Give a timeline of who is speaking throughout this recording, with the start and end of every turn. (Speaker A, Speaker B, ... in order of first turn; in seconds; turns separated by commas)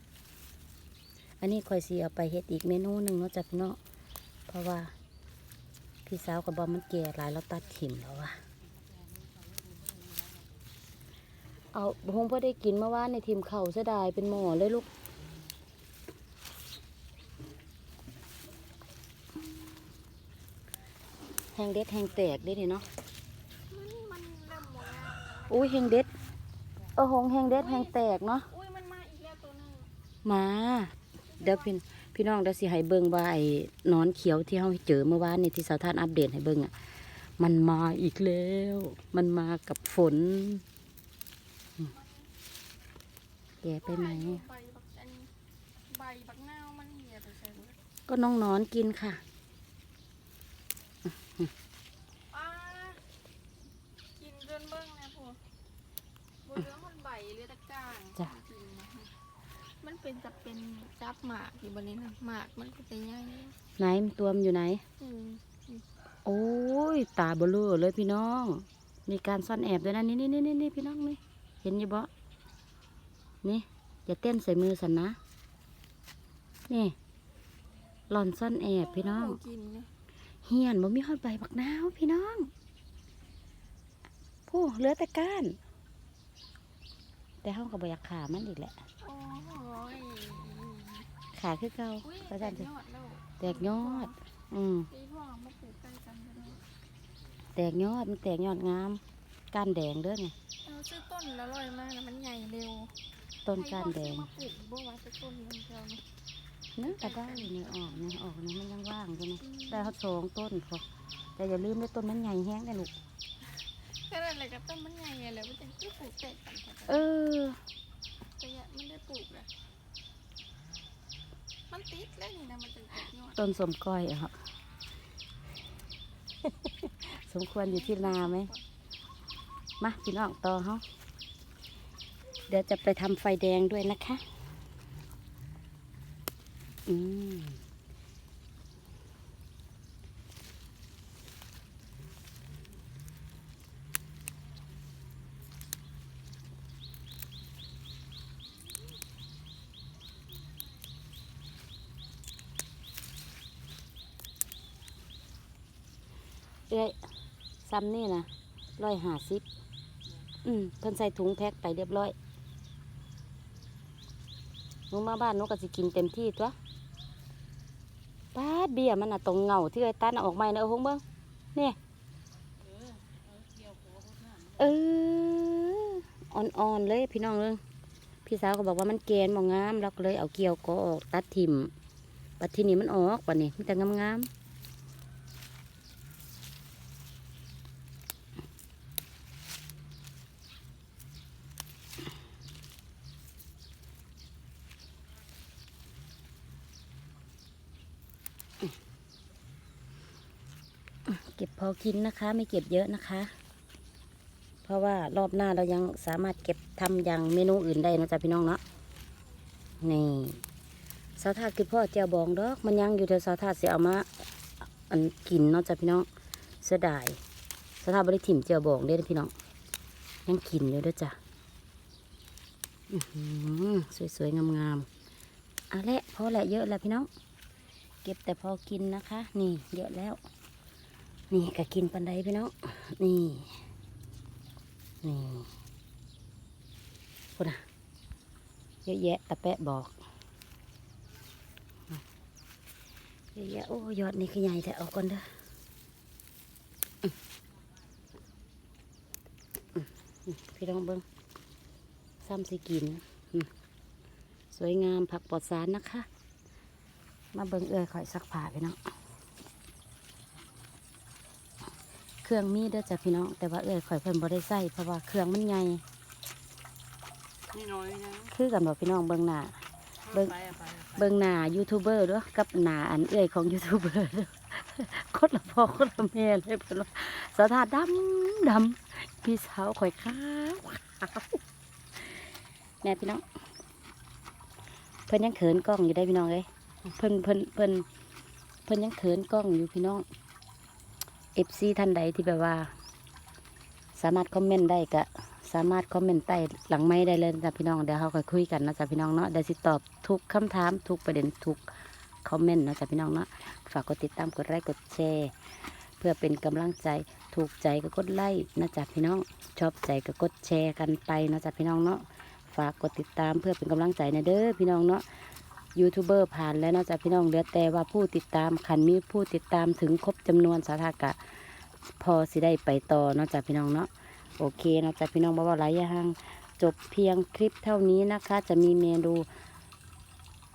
Speaker A: 1.4-3.8, Speaker A: 4.5-4.9, Speaker A: 6.0-8.4, Speaker B: 9.0-10.4, Speaker A: 11.7-14.9, Speaker A: 21.5-22.9, Speaker C: 23.7-25.8, Speaker A: 25.5-26.1, Speaker A: 26.9-28.5, Speaker C: 27.5-27.9, Speaker C: 28.5-29.9, Speaker A: 30.2-40.6, Speaker C: 31.3-31.7, Speaker C: 41.9-42.3, Speaker A: 43.6-44.5, Speaker C: 43.8-45.3, Speaker C: 45.8-47.8, Speaker A: 48.1-49.2, Speaker A: 51.1-51.5, Speaker C: 52.3-53.0, Speaker C: 54.1-55.4, Speaker C: 56.4-63.5, Speaker A: 63.8-64.8, Speaker C: 65.0-65.8, Speaker A: 66.2-72.1, Speaker A: 73.4-75.2, Speaker A: 76.7-77.0, Speaker A: 78.1-79.4, Speaker C: 78.8-79.9, Speaker A: 80.4-82.5, Speaker A: 84.5-85.5, Speaker A: 87.4-88.8, Speaker C: 89.0-91.1, Speaker A: 91.3-92.7, Speaker C: 92.0-94.1, Speaker A: 93.4-94.9, Speaker C: 94.9-96.6, Speaker A: 97.5-100.3, Speaker C: 100.6-103.0, Speaker A: 103.5-104.3, Speaker C: 103.5-106.0, Speaker A: 106.8-110.8, Speaker C: 106.9-107.7, Speaker C: 109.4-109.9, Speaker A: 111.3-112.9, Speaker C: 113.5-117.0, Speaker A: 116.9-117.6, Speaker C: 118.4-119.5, Speaker C: 121.7-123.4, Speaker A: 123.2-124.4, Speaker A: 126.6-128.5, Speaker C: 127.6-128.6, Speaker A: 129.8-130.8, Speaker A: 132.5-134.2, Speaker A: 136.9-137.6, Speaker A: 156.7-157.0, Speaker A: 157.6-159.4, Speaker A: 160.4-162.2, Speaker A: 164.9-166.6, Speaker A: 168.3-171.0, Speaker B: 172.6-174.5, Speaker A: 174.5-177.6, Speaker A: 178.2-181.7, Speaker A: 182.4-184.3, Speaker A: 201.1-203.3, Speaker A: 204.6-208.6, Speaker A: 209.8-210.4, Speaker A: 211.2-216.1, Speaker A: 216.6-217.2, Speaker A: 217.8-219.3, Speaker A: 220.2-221.2, Speaker A: 222.9-224.9, Speaker A: 225.7-227.1, Speaker A: 228.0-230.2, Speaker A: 231.3-233.6, Speaker A: 235.0-235.5, Speaker A: 237.3-237.6, Speaker A: 238.8-240.0, Speaker A: 243.3-245.3, Speaker A: 249.7-251.0, Speaker A: 252.2-253.5, Speaker A: 254.5-256.1, Speaker A: 257.3-258.8, Speaker A: 262.2-265.8, Speaker B: 267.5-268.3, Speaker A: 268.2-281.4, Speaker B: 270.2-270.9, Speaker A: 282.8-283.2, Speaker A: 285.1-287.9, Speaker A: 288.6-290.0, Speaker A: 291.3-292.7, Speaker A: 293.9-301.7, Speaker A: 302.2-305.4, Speaker A: 306.0-315.2, Speaker A: 315.7-329.3